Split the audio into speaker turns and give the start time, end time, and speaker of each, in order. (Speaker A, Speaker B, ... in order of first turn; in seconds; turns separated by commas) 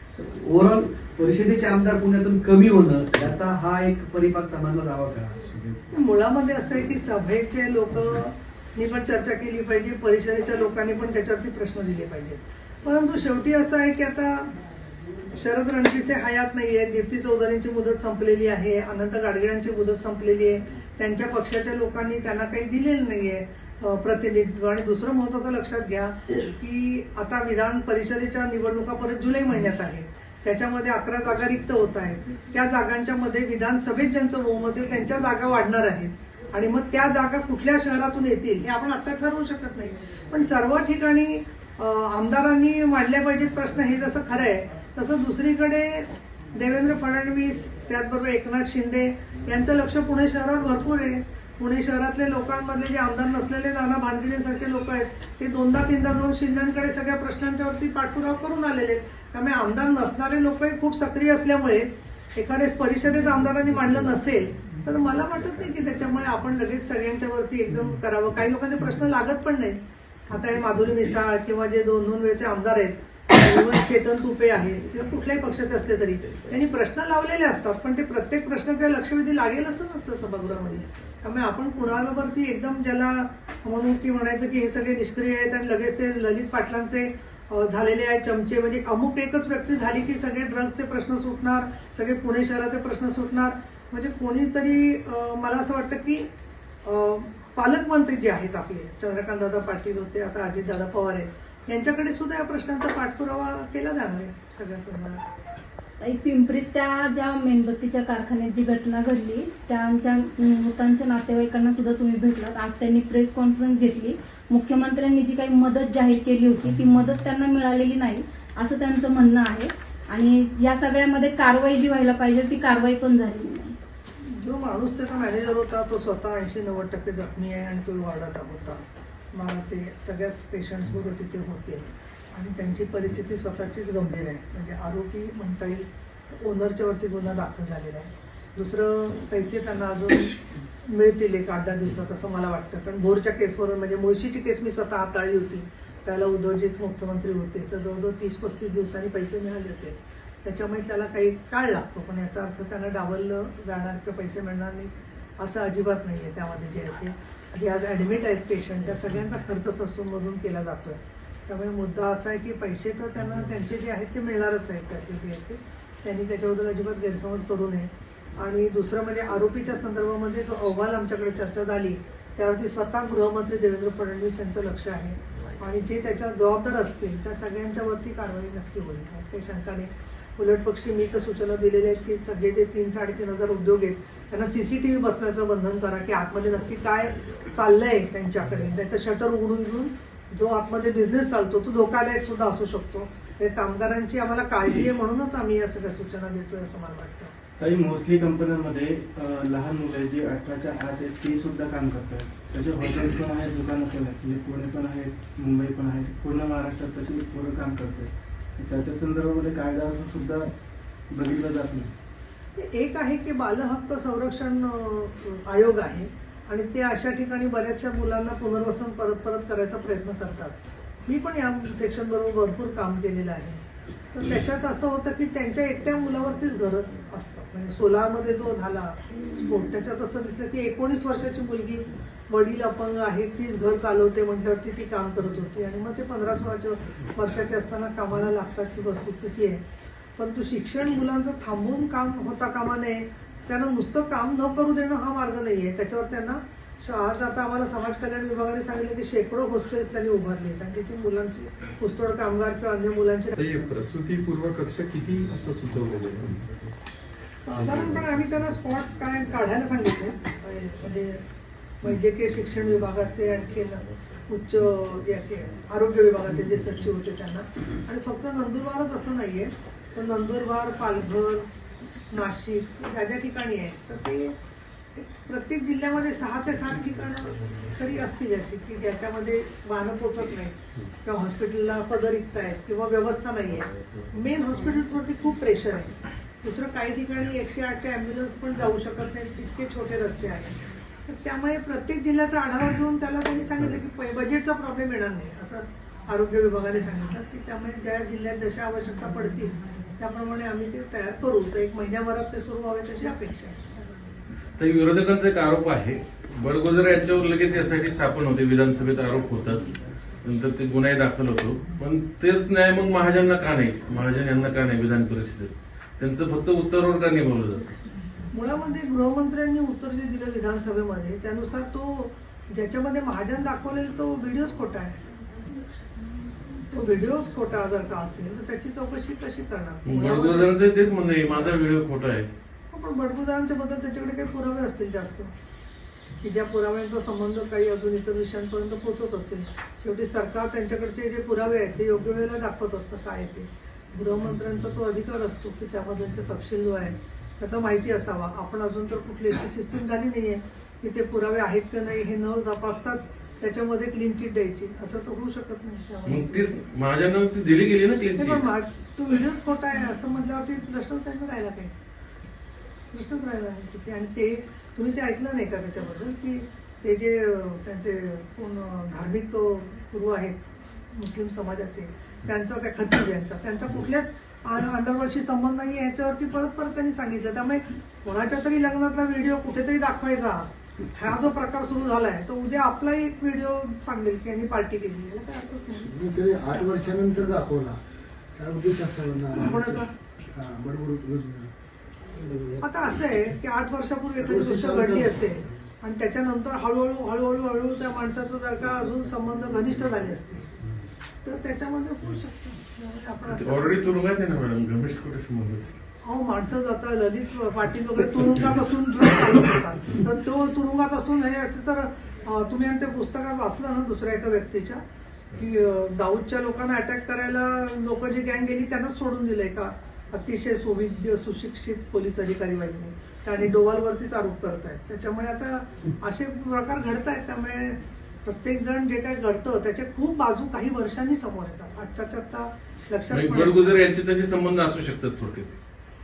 Speaker A: 0.2-5.8, Speaker B: 5.9-14.5, Speaker B: 15.3-96.3, Speaker B: 96.8-105.2, Speaker C: 106.0-123.7, Speaker B: 124.2-128.8, Speaker B: 129.3-197.3, Speaker D: 197.6-210.5, Speaker D: 211.1-211.9, Speaker B: 212.6-223.6, Speaker B: 224.1-239.6, Speaker B: 240.2-253.7, Speaker E: 253.4-256.7, Speaker B: 257.4-261.2, Speaker E: 257.6-258.2, Speaker B: 261.8-271.4, Speaker B: 272.1-274.3, Speaker B: 274.9-290.5, Speaker B: 291.1-303.8, Speaker F: 304.6-317.8, Speaker B: 318.3-325.0, Speaker B: 326.7-330.5, Speaker F: 329.9-332.3, Speaker B: 332.7-335.3, Speaker B: 336.2-356.6, Speaker F: 356.1-358.4, Speaker B: 358.2-361.7, Speaker B: 362.9-385.9, Speaker G: 385.8-387.8, Speaker G: 388.4-391.5, Speaker B: 389.4-389.9, Speaker B: 392.6-400.4, Speaker G: 394.2-395.4, Speaker B: 401.2-403.8, Speaker F: 403.3-405.8, Speaker B: 406.0-414.8, Speaker B: 415.4-433.8, Speaker F: 433.1-435.5